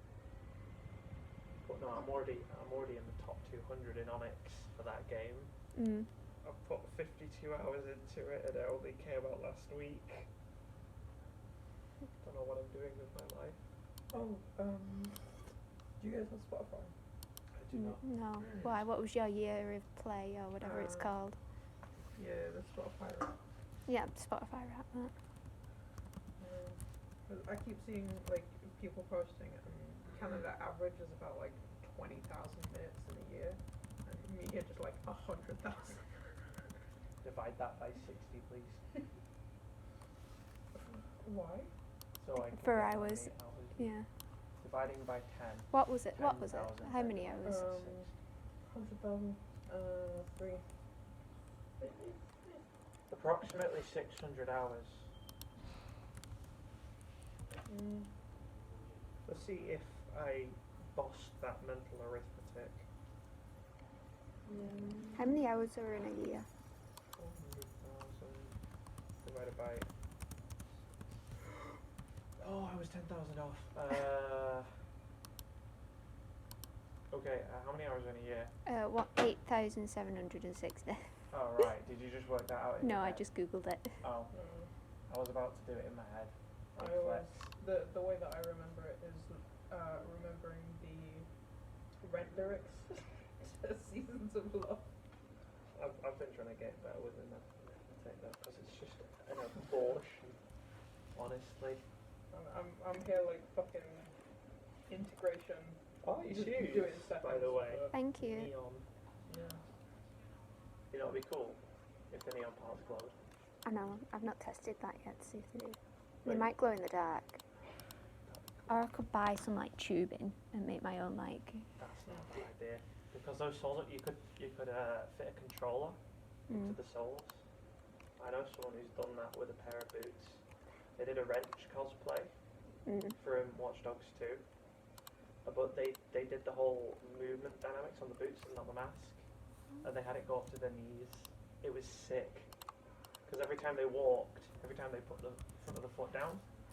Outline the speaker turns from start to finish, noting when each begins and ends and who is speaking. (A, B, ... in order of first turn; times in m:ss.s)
0:01.6-0:05.5 A
0:05.8-0:06.1 B
0:06.4-0:10.3 A
0:12.2-0:13.6 A
0:14.1-0:15.4 C
0:16.0-0:16.9 C
0:17.5-0:18.8 A
0:17.9-0:21.4 B
0:20.6-0:21.1 C
0:22.1-0:23.4 C
0:23.9-0:25.1 B
0:26.4-0:36.5 C
0:37.2-0:38.8 A
0:40.8-0:41.7 C
0:42.2-0:44.0 A
0:42.4-0:44.1 B
0:44.6-0:48.1 A
0:45.7-0:47.7 B
0:47.4-0:48.1 C
0:48.6-0:50.6 C
0:51.8-0:52.6 C
0:53.1-0:55.1 A
0:57.6-0:58.1 C
0:59.2-1:02.8 A
1:04.4-1:05.2 C
1:05.1-1:06.5 B
1:07.2-1:08.6 A
1:09.2-1:09.9 A
1:12.4-1:14.7 A
1:17.1-1:18.5 A
1:18.6-1:21.1 B
1:21.3-1:23.3 A
1:22.8-1:24.0 B
1:24.0-1:24.3 A
1:24.3-1:24.7 C
1:25.1-1:27.3 A
1:26.7-1:31.3 C
1:32.0-1:34.9 C
1:35.7-1:40.4 A
1:41.1-1:41.8 A
1:42.3-1:44.1 C
1:44.9-1:47.9 C
1:46.0-1:48.9 A
1:47.9-1:48.5 B
1:49.3-1:49.6 C
1:50.9-1:53.1 A
1:53.6-1:57.4 B
1:58.2-1:58.8 A
1:58.7-2:01.7 B
2:01.8-2:06.0 A
2:06.5-2:06.7 B
2:06.5-2:07.4 A
2:08.2-2:10.4 A
2:11.0-2:12.3 A
2:12.8-2:13.2 B
2:13.2-2:14.4 A
2:15.4-2:19.2 A
2:19.8-2:22.5 A
2:23.2-2:26.4 A